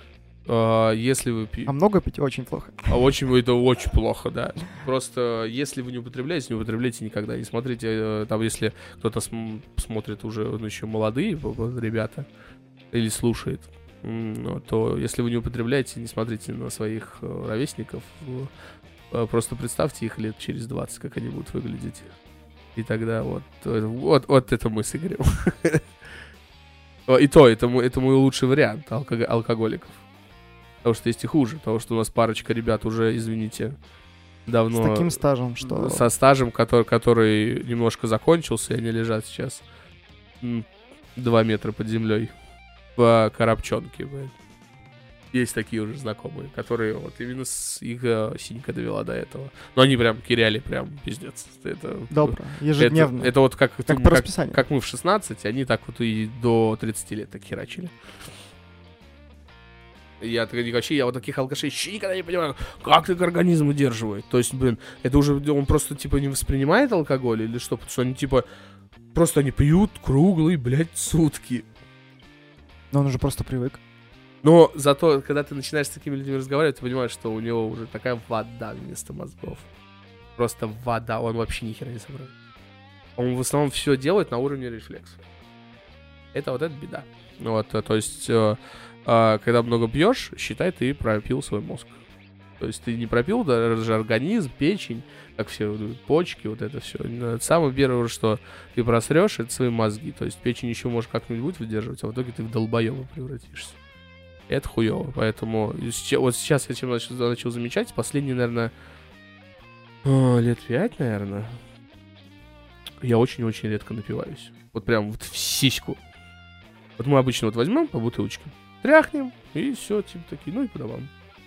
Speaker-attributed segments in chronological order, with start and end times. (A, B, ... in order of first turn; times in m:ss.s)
0:00.4-0:01.7 A
0:01.7-0:03.0 B
0:02.9-0:12.2 A
0:12.9-0:18.5 A
0:19.1-0:22.1 A
0:22.7-0:25.8 A
0:27.1-0:30.0 A
0:30.8-0:33.8 A
0:34.4-0:39.6 A
0:34.7-0:36.0 B
0:40.4-0:42.3 A
0:43.0-0:44.3 A
0:45.3-0:57.9 A
0:52.1-0:53.3 B
0:53.9-0:54.6 B
1:00.2-1:08.4 A
1:09.1-1:11.7 A
1:12.9-1:13.8 B
1:14.4-1:19.7 A
1:20.4-1:22.3 A
1:23.2-1:25.2 A
1:26.3-1:32.0 A
1:32.6-1:43.8 A
1:44.5-1:48.7 A
1:50.0-1:51.6 A
1:53.0-1:56.0 A
1:57.0-2:01.1 A